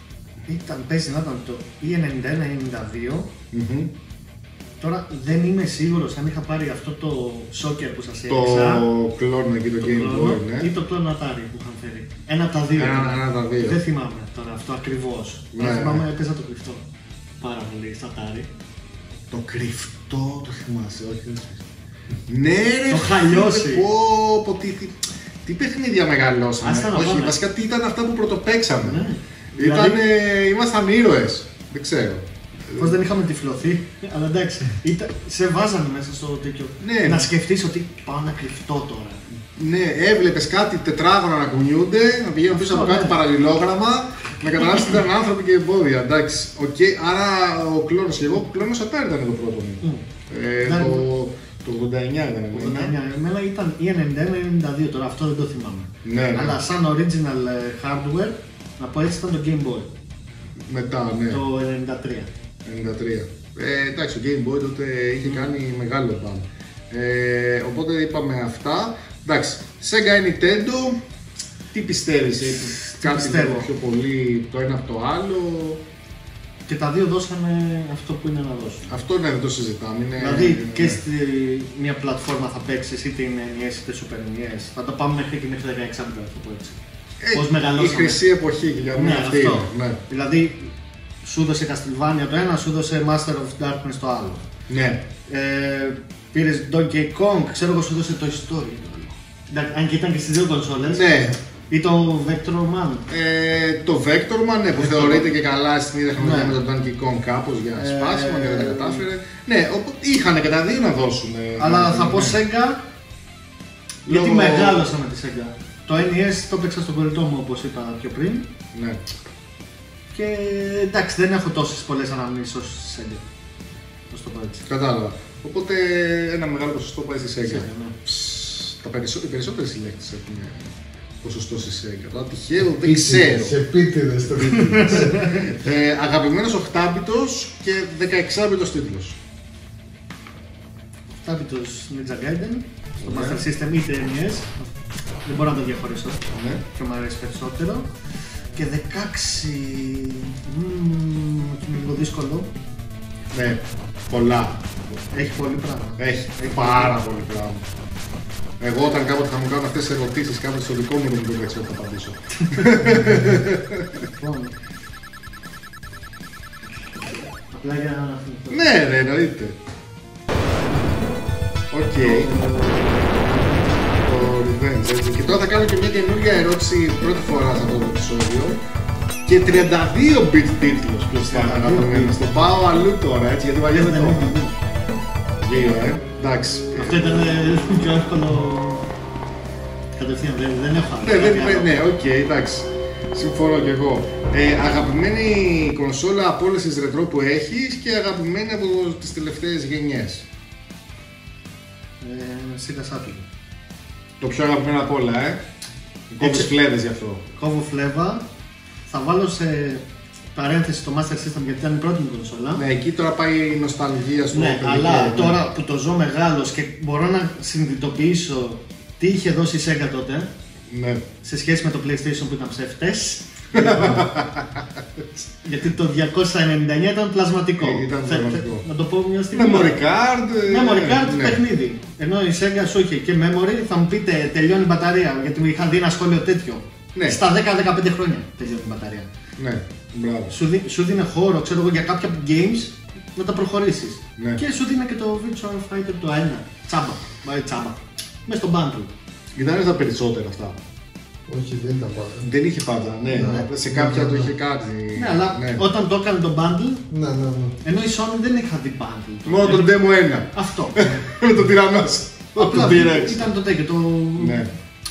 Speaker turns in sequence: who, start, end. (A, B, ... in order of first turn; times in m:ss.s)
0:00.4-0:03.3 A
0:03.5-0:03.9 B
0:04.8-0:08.9 A
0:08.3-0:10.7 B
0:09.8-0:16.8 A
0:12.8-0:13.8 B
0:15.5-0:16.1 B
0:17.4-0:18.5 A
0:19.3-0:20.5 B
0:20.3-0:21.6 A
0:22.3-0:29.0 B
0:22.9-0:23.9 A
0:26.6-0:27.4 A
0:28.8-0:30.0 A
0:29.6-0:33.0 B
0:32.8-0:39.2 A
0:36.8-0:37.3 B
0:39.6-0:52.9 B
0:42.5-0:43.2 A
0:50.6-0:51.0 A
0:52.5-0:59.9 A
0:56.0-0:56.6 B
1:00.6-1:01.4 B
1:01.3-1:02.3 A
1:02.6-1:11.0 B
1:11.7-1:15.8 B
1:12.6-1:13.7 A
1:16.7-1:18.9 A
1:18.9-1:21.0 B
1:20.2-1:28.2 A
1:27.2-1:30.0 B
1:28.9-1:34.4 A
1:34.7-1:35.1 B
1:35.3-1:43.0 A
1:40.9-1:41.4 B
1:43.1-1:52.4 B
1:44.8-1:45.3 A
1:46.2-1:46.6 A
1:47.8-1:49.0 A
1:51.6-1:52.8 A
1:54.0-1:54.9 B
1:54.0-1:58.5 A
1:58.7-1:59.0 B
2:00.1-2:03.2 A
2:04.1-2:04.6 A
2:04.6-2:13.6 B
2:07.4-2:08.0 A
2:12.8-2:15.3 C
2:14.4-2:19.2 B
2:14.4-2:15.4 A
2:21.1-2:27.9 A
2:23.0-2:23.4 B
2:26.3-2:26.6 B
2:28.6-2:32.5 A
2:33.3-2:35.3 B
2:35.1-2:37.0 A
2:36.0-2:37.7 B
2:38.6-2:44.1 B
2:42.4-2:43.4 A
2:44.0-2:44.6 A
2:47.4-2:48.6 A
2:48.5-2:49.6 B
2:51.7-2:52.4 B
2:52.0-2:54.1 A
2:53.9-2:58.6 B
2:59.2-3:04.4 B
3:01.1-3:02.2 A
3:03.7-3:04.6 A
3:05.4-3:07.3 B
3:06.7-3:08.9 A
3:09.9-3:11.7 A
3:11.0-3:20.3 B
3:22.0-3:23.3 A
3:24.2-3:25.4 B
3:26.1-3:27.2 B
3:26.2-3:26.5 A
3:27.4-3:28.3 A
3:28.9-3:29.8 A
3:30.3-3:32.6 A
3:32.6-3:35.4 B
3:34.3-3:40.3 A
3:40.7-3:41.1 B
3:41.2-3:44.1 A
3:43.5-3:45.2 B
3:45.4-3:49.8 A
3:47.6-3:48.6 B
3:49.3-3:51.4 B
3:50.4-3:59.1 A
3:56.9-3:57.2 B
3:59.4-4:00.3 B
4:00.3-4:08.9 A
4:04.2-4:04.4 B
4:09.3-4:10.6 B
4:11.3-4:12.3 C
4:12.2-4:15.6 B
4:13.1-4:14.3 C
4:13.2-4:13.4 A
4:14.9-4:16.9 A
4:16.9-4:17.6 C
4:17.6-4:19.7 A
4:19.3-4:23.3 B
4:20.3-4:21.0 A
4:22.3-4:24.4 A
4:24.2-4:24.5 B